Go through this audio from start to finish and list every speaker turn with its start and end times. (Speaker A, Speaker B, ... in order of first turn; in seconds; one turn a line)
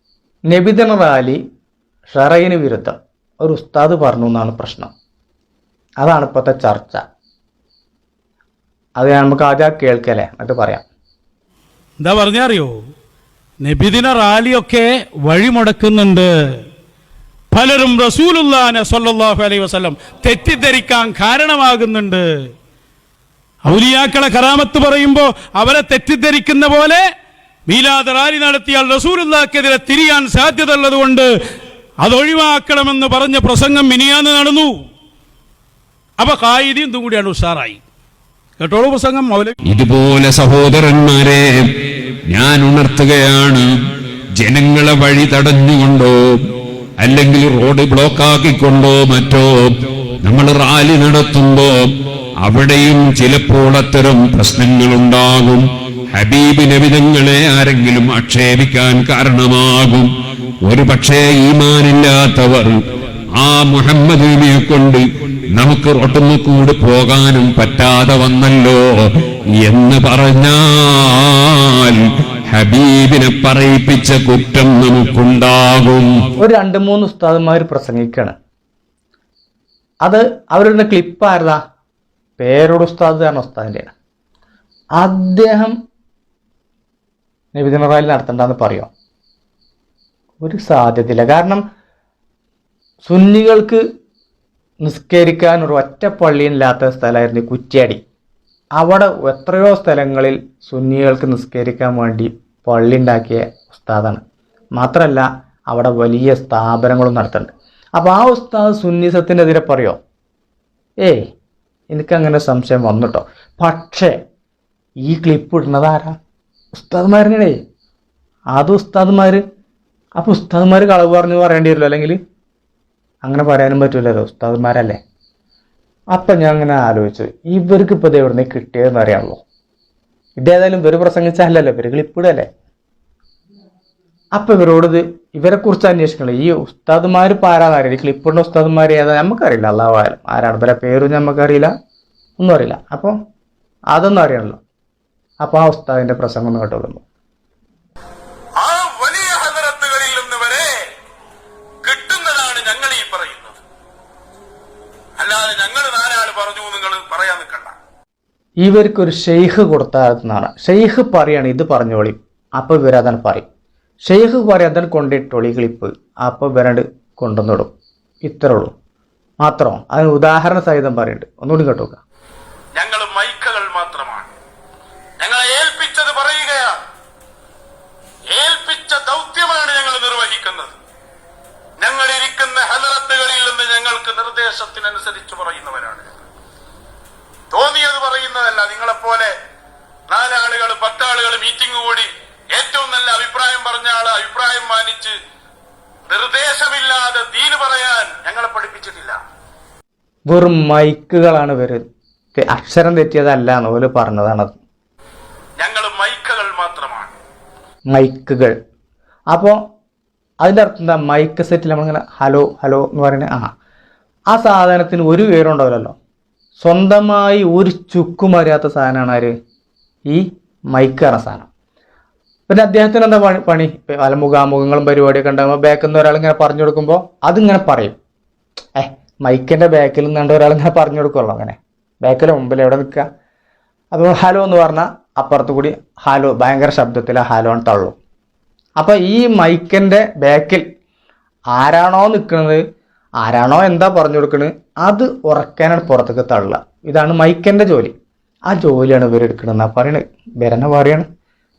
Speaker A: 0.5-1.4
Speaker A: 2.1-4.9
Speaker A: 6.0-7.0
Speaker A: 9.0-10.8
Speaker B: 12.0-12.8
Speaker B: 13.6-16.6
Speaker B: 17.5-22.5
Speaker B: 23.6-27.1
Speaker B: 27.7-31.3
Speaker B: 32.0-34.8
Speaker B: 36.2-37.8
Speaker B: 38.6-39.5
Speaker C: 39.7-41.4
Speaker C: 42.3-43.6
Speaker C: 44.4-46.4
Speaker C: 47.0-49.7
Speaker C: 50.2-51.9
Speaker C: 52.4-55.6
Speaker C: 56.1-60.1
Speaker C: 60.6-62.8
Speaker C: 63.4-68.8
Speaker C: 69.6-76.1
Speaker A: 76.4-78.3
Speaker A: 80.0-81.6
Speaker A: 82.4-83.9
Speaker A: 85.0-85.7
Speaker A: 87.5-88.9
Speaker A: 90.4-91.6
Speaker A: 93.0-93.8
Speaker A: 94.8-98.0
Speaker A: 98.8-104.2
Speaker A: 104.8-110.0
Speaker A: 111.9-114.1
Speaker A: 115.0-116.1
Speaker A: 116.7-117.6
Speaker A: 118.5-119.4
Speaker A: 120.2-122.2
Speaker A: 123.2-125.0
Speaker A: 126.1-129.4
Speaker A: 130.4-132.5
Speaker A: 134.3-141.7
Speaker A: 142.4-143.1
Speaker A: 143.9-144.6
Speaker A: 145.4-147.0
Speaker D: 148.6-150.7
Speaker D: 151.8-153.6
Speaker D: 155.2-157.7
Speaker A: 158.6-163.4
Speaker A: 164.0-167.7
Speaker A: 168.2-168.7
Speaker A: 169.4-172.0
Speaker D: 172.7-174.3
Speaker D: 175.2-176.8
Speaker D: 178.3-180.7
Speaker D: 181.8-186.1
Speaker D: 187.5-189.3
Speaker D: 190.1-195.2
Speaker D: 196.1-199.2
Speaker A: 200.3-201.8
Speaker A: 202.3-204.6
Speaker D: 205.6-207.1
Speaker A: 207.9-208.5
Speaker A: 209.3-209.6
Speaker A: 210.4-213.5
Speaker A: 214.3-215.9
Speaker A: 216.6-219.3
Speaker A: 220.1-221.5
Speaker A: 222.5-227.9
Speaker A: 228.8-233.1
Speaker A: 233.9-237.9
Speaker A: 238.8-240.6
Speaker A: 241.5-242.6
Speaker A: 243.2-247.9
Speaker A: 248.5-251.1